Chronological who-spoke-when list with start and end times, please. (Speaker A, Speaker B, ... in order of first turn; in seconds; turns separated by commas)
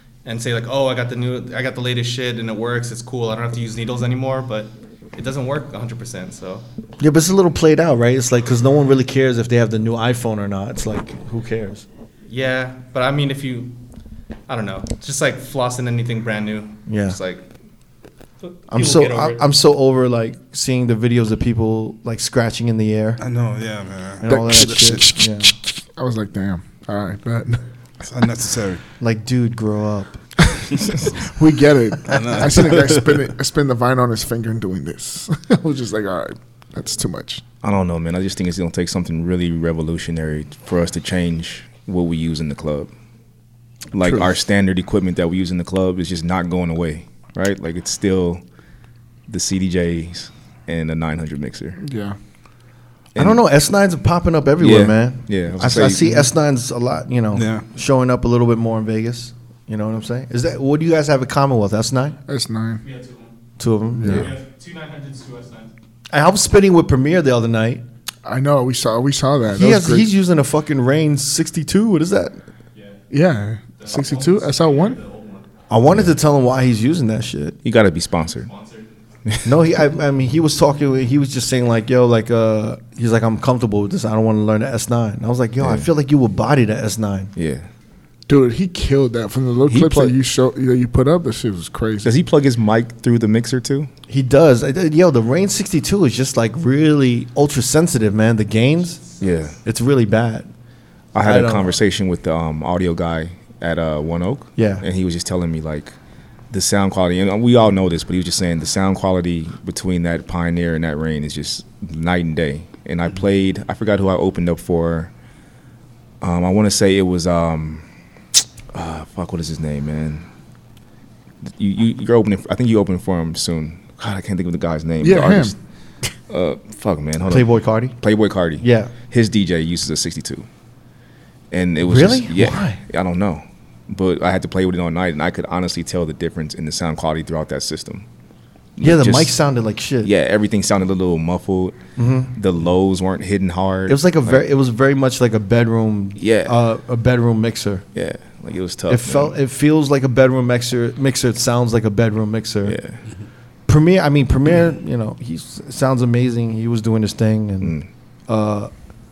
Speaker A: 0.2-6.7, Speaker B: 7.0-11.8, Speaker A: 12.3-13.7, Speaker A: 14.5-17.4, Speaker B: 16.9-17.2, Speaker A: 18.4-19.4, Speaker B: 18.7-23.2, Speaker C: 23.2-25.0, Speaker B: 24.2-25.5, Speaker D: 24.2-27.6, Speaker C: 28.0-28.8, Speaker B: 29.0-30.2, Speaker D: 30.6-37.4, Speaker C: 32.1-33.2, Speaker E: 37.6-42.9, Speaker E: 43.9-48.4, Speaker D: 44.0-44.3, Speaker E: 49.3-51.8, Speaker D: 51.8-52.1, Speaker B: 53.1-62.2, Speaker E: 54.6-56.3, Speaker C: 57.3-57.6, Speaker D: 62.3-62.8, Speaker A: 62.8-63.4, Speaker B: 63.6-64.3, Speaker D: 64.0-64.3, Speaker A: 64.1-65.7, Speaker B: 66.1-67.8, Speaker D: 68.2-70.1, Speaker B: 69.5-72.4, Speaker A: 72.7-73.0, Speaker D: 73.1-75.0, Speaker A: 73.8-75.5, Speaker B: 75.7-77.6, Speaker E: 77.6-78.5, Speaker A: 78.4-78.9, Speaker B: 79.4-87.3, Speaker E: 85.6-85.9, Speaker E: 87.3-87.7, Speaker D: 88.3-92.2, Speaker E: 89.7-90.1, Speaker B: 89.7-90.1, Speaker E: 92.0-93.9, Speaker B: 94.1-99.0, Speaker E: 99.2-99.5, Speaker B: 99.6-100.5, Speaker E: 101.1-105.9, Speaker B: 101.2-101.8, Speaker B: 104.6-104.8, Speaker E: 106.5-115.1, Speaker E: 116.2-117.8, Speaker E: 118.7-120.2, Speaker E: 121.4-125.5, Speaker D: 125.0-125.5, Speaker E: 126.3-130.4, Speaker B: 127.3-128.0, Speaker B: 128.6-128.9, Speaker E: 131.5-138.0, Speaker B: 131.8-132.8, Speaker E: 138.8-139.4, Speaker B: 138.8-140.1, Speaker E: 140.0-141.8, Speaker B: 142.0-142.3, Speaker E: 142.3-144.4, Speaker B: 143.9-147.8, Speaker E: 146.2-146.5, Speaker E: 147.9-149.3, Speaker B: 148.9-152.8, Speaker E: 152.6-153.0, Speaker B: 153.7-157.8, Speaker E: 157.6-157.9, Speaker B: 158.3-158.7